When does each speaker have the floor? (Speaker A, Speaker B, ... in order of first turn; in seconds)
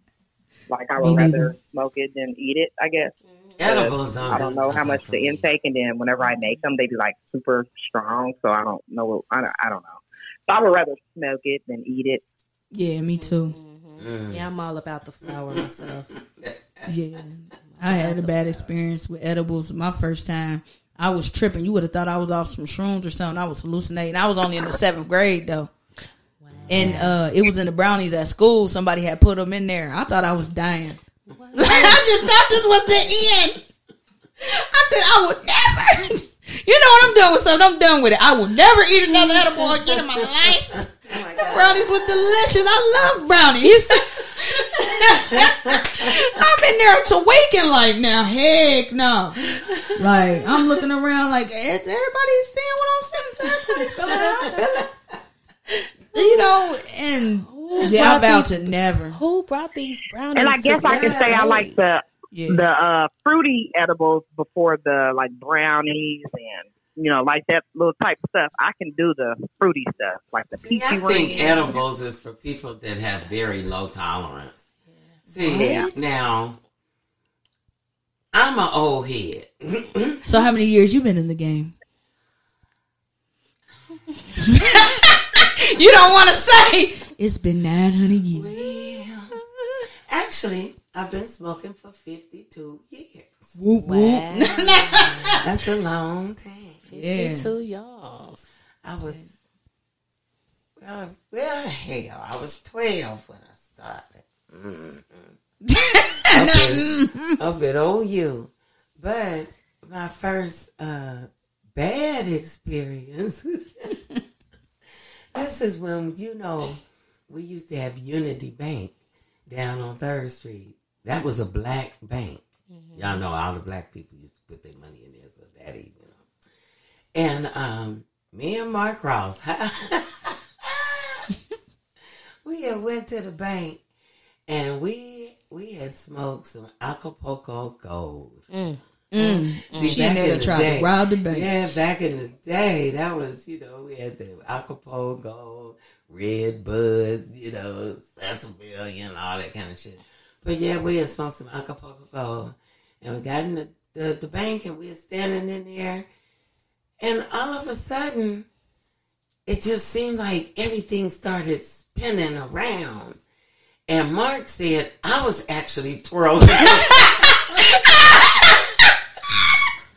Speaker A: 0.7-12.2, 60.4-71.7
Speaker B: 1.0-1.5, 12.7-13.6, 16.9-25.7, 26.7-31.0, 31.5-33.6, 34.4-54.9, 56.1-59.2, 62.3-62.6, 75.4-76.1, 80.2-81.7, 84.4-88.5, 93.6-95.4, 96.9-97.5, 105.7-107.4, 139.1-141.5, 166.6-168.6
Speaker C: 3.3-3.6, 6.3-6.6, 13.1-16.1, 17.7-18.7, 26.4-27.1, 31.3-32.1, 41.1-41.9, 43.6-44.0, 49.5-50.0, 57.5-61.7, 71.2-71.8, 93.8-95.4, 96.9-98.5, 122.7-123.2, 138.5-140.4
Speaker D: 3.6-5.4, 14.0-14.5, 15.3-16.9, 26.7-27.0, 45.5-46.1, 53.7-54.6, 60.9-61.5, 70.6-74.6, 75.3-76.6, 78.3-80.2, 88.3-89.4, 90.1-93.5, 95.4-96.8, 98.8-99.3, 100.8-105.4, 106.3-106.9, 107.4-113.9, 115.3-118.9, 119.5-122.4, 123.0-126.2, 127.2-131.3, 132.4-133.8, 134.5-138.4, 139.8-156.1, 157.0-158.5, 159.5-163.2, 163.9-168.6